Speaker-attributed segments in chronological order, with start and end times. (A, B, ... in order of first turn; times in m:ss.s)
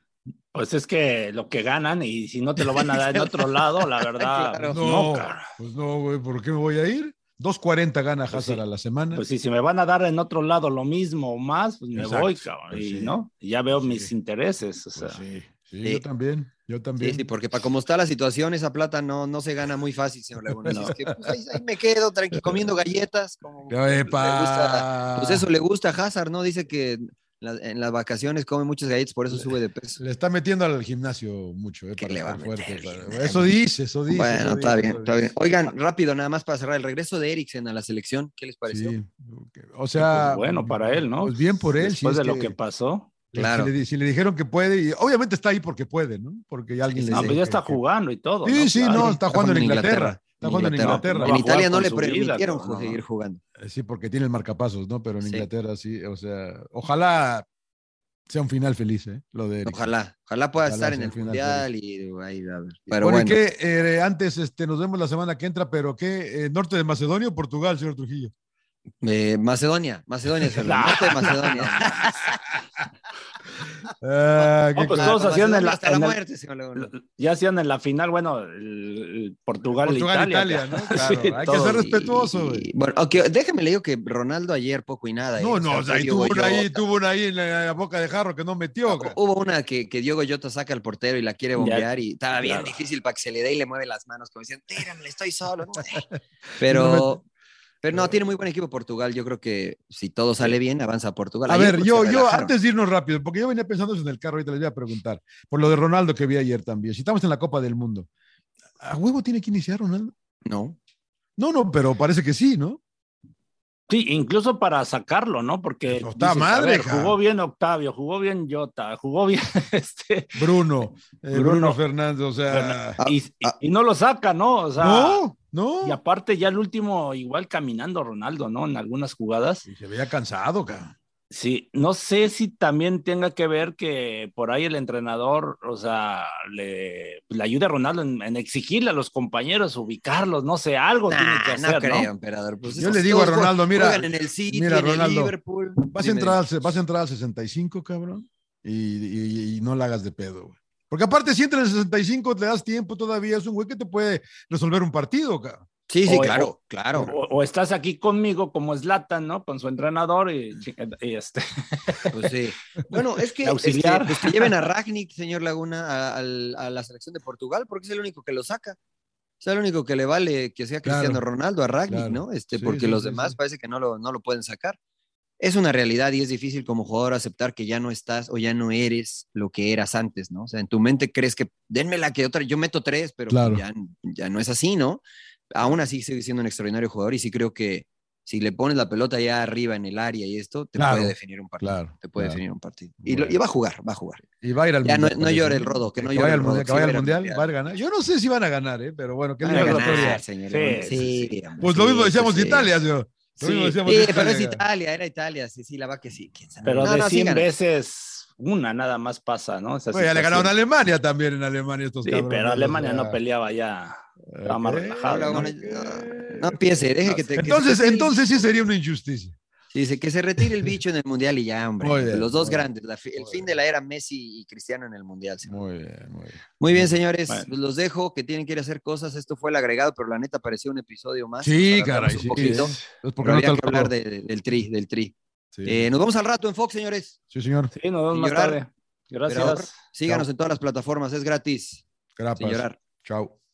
0:00.5-0:05.4 A
0:04.2-0:04.8 B
0:04.7-0:09.2 C
0:08.3-0:08.6 A
0:09.1-0:15.2 A
0:11.9-0:13.2 C
0:13.7-0:14.1 C
0:15.0-0:17.3 C
0:17.0-0:30.0 B
0:20.5-0:21.3 C
0:22.3-0:22.7 C
0:23.7-0:25.5 C
0:29.3-0:35.7 C
0:32.0-0:33.5 B
0:34.1-0:38.9 B
0:38.7-0:42.6 C
0:40.0-0:43.1 A
0:43.3-0:47.8 C
0:43.3-0:43.7 B
0:46.9-0:47.4 B
0:47.0-0:49.1 A
0:48.4-0:51.4 C
0:48.9-0:53.4 B
0:50.6-0:53.0 A
0:53.6-0:57.5 C
0:55.2-0:55.5 B
0:58.3-0:59.8 C
0:59.6-1:03.4 B
1:00.6-1:01.6 C
1:03.0-1:08.3 C
1:09.0-1:12.4 B
1:10.6-1:12.1 A
1:11.6-1:12.8 C
1:14.0-1:15.2 C
1:14.7-1:16.2 A
1:15.0-1:16.9 B
1:16.8-1:21.9 A
1:19.8-1:22.7 C
1:21.5-1:26.8 B
1:25.4-1:29.2 C
1:28.9-1:36.0 B
1:31.6-1:31.9 A
1:32.4-1:32.8 A
1:36.6-1:37.2 B
1:36.6-1:37.2 C
1:37.8-1:42.5 B
1:37.9-1:38.2 C
1:41.5-1:48.1 C
1:48.8-1:50.1 C
1:50.4-1:50.8 B
1:51.4-1:52.8 C
1:53.9-2:00.4 A
1:55.8-1:57.2 C
2:00.3-2:03.0 C
2:01.3-2:01.8 A
2:02.5-2:05.2 A
2:03.0-2:03.6 B
2:04.8-2:06.0 C
2:05.8-2:09.6 A
2:09.6-2:11.0 C
2:11.3-2:22.1 A
2:21.1-2:26.4 B
2:22.7-2:35.7 C
2:35.9-2:37.1 B
2:36.0-2:42.4 A
2:42.1-2:48.8 B
2:43.4-2:44.5 A
2:49.4-2:54.8 B
2:50.8-2:51.2 C
2:51.9-2:53.4 C
2:55.4-3:14.2 B
3:03.3-3:03.6 C
3:10.8-3:12.4 C
3:13.0-3:13.4 C
3:14.4-3:20.2 C
3:14.8-3:17.5 B
3:19.4-3:22.8 B
3:19.5-3:21.3 A
3:21.6-3:24.6 C
3:23.4-3:23.8 A
3:23.8-3:27.5 B
3:26.6-3:30.5 A
3:29.9-3:33.2 C
3:32.0-3:35.5 A
3:34.3-3:36.8 C
3:35.0-3:38.2 B
3:37.3-3:39.4 C
3:39.7-3:45.6 B
3:40.4-3:40.7 C
3:41.8-3:43.4 C
3:45.4-3:46.9 C
3:46.6-3:57.2 B
3:51.4-3:53.9 C
3:55.5-3:55.9 C
3:57.3-3:57.7 C
3:57.7-3:59.7 A
3:58.1-3:58.6 B
3:59.3-4:01.8 B
4:02.2-4:03.3 C
4:02.4-4:02.8 B